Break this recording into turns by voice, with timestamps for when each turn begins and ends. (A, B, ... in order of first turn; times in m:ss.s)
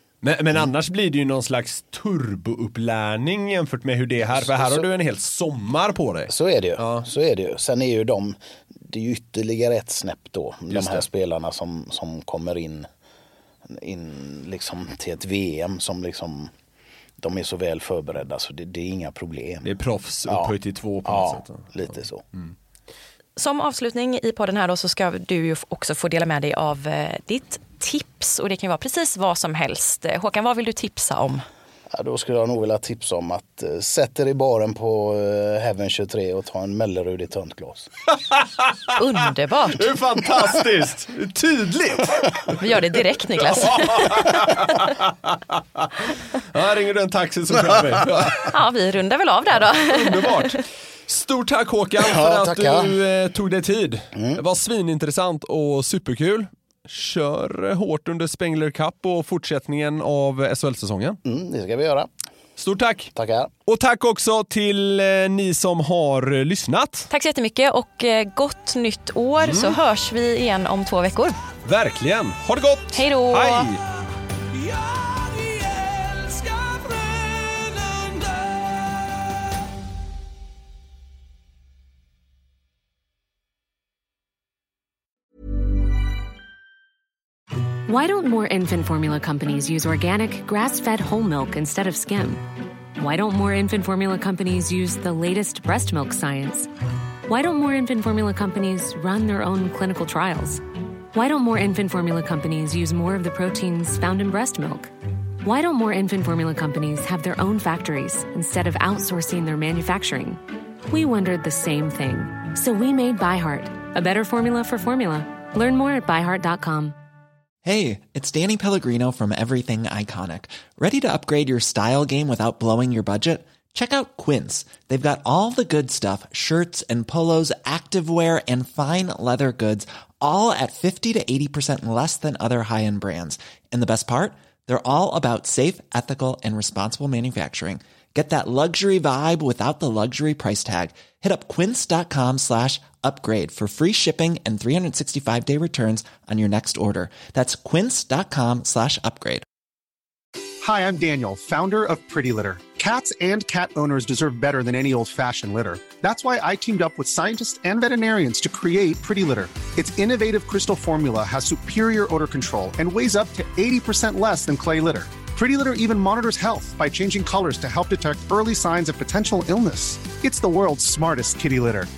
0:00.2-0:07.1 A
0:04.3-0:04.9 B
0:06.3-0:12.9 B
0:10.7-0:11.0 A
0:13.7-0:16.5 B
0:17.2-0:19.7 B
0:19.6-0:22.5 A
0:20.3-0:22.2 B
0:23.4-0:31.4 C
0:31.9-0:37.9 B
0:38.3-0:38.9 A
0:39.0-0:39.9 C
0:39.8-0:42.8 A
0:42.6-0:44.9 C
0:43.4-0:48.5 A
0:47.8-0:48.2 B
0:48.4-0:50.6 C
0:49.6-1:01.2 A
0:52.0-0:53.0 B
0:54.2-0:54.4 B
1:01.2-1:02.1 B
1:02.6-1:03.1 A
1:03.1-1:03.5 B
1:03.7-1:07.1 A
1:07.1-1:11.4 C
1:09.4-1:09.8 A
1:11.6-1:13.8 A
1:12.9-1:13.7 C
1:14.7-1:18.5 A
1:27.9-1:36.7 D
1:37.3-1:44.9 D
1:45.4-1:57.0 D
1:57.6-2:29.4 E
2:30.6-2:51.9 F